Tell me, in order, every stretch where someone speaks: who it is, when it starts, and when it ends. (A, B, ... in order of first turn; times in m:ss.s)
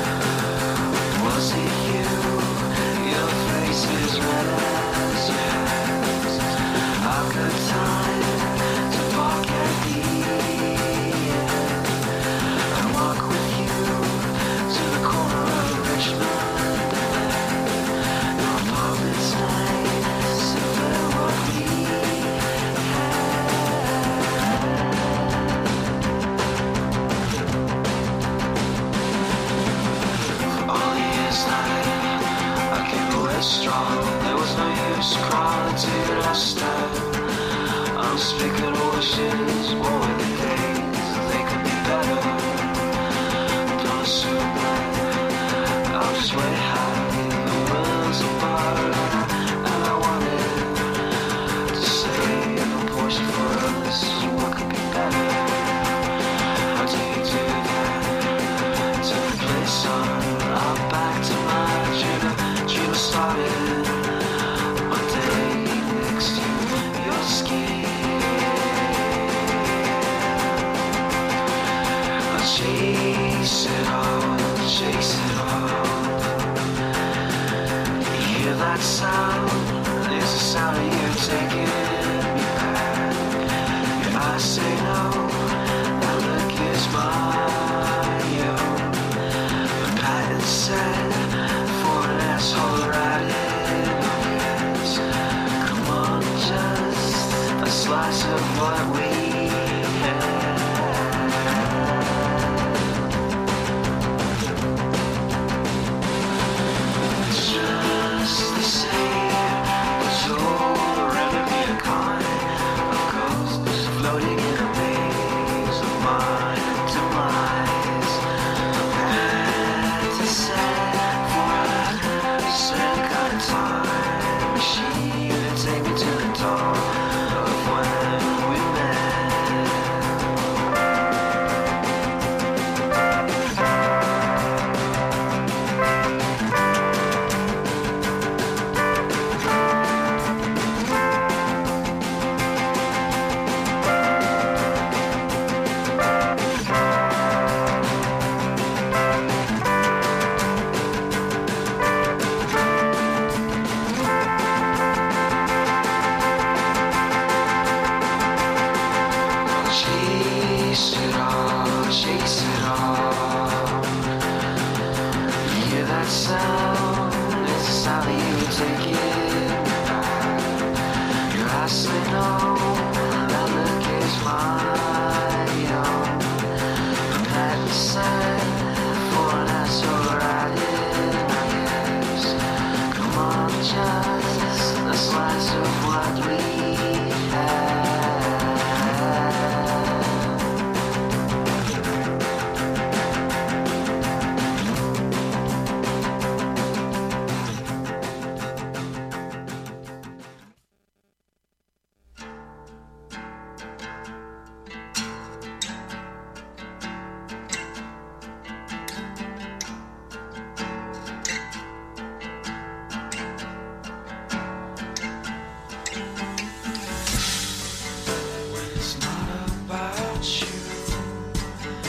0:01.1-0:06.4 A
0:07.0-0:12.0 A
0:12.7-0:25.3 A
0:30.6-0:37.2 A
0:37.9-0:42.9 A
0:43.7-0:45.1 A
0:45.9-0:51.0 A
0:51.7-0:55.8 A
0:56.7-1:04.2 A
1:04.8-1:10.4 A
1:12.3-1:16.6 A
1:18.0-1:23.4 A
1:24.0-1:29.1 A
1:29.8-1:35.0 A
1:35.6-1:42.5 A
1:47.2-1:58.2 A
1:58.8-2:10.0 A
2:39.5-2:44.0 A
2:45.4-2:50.7 A
2:51.3-2:56.5 A
2:57.1-3:02.4 A
3:02.9-3:10.2 A
3:38.4-3:41.3 A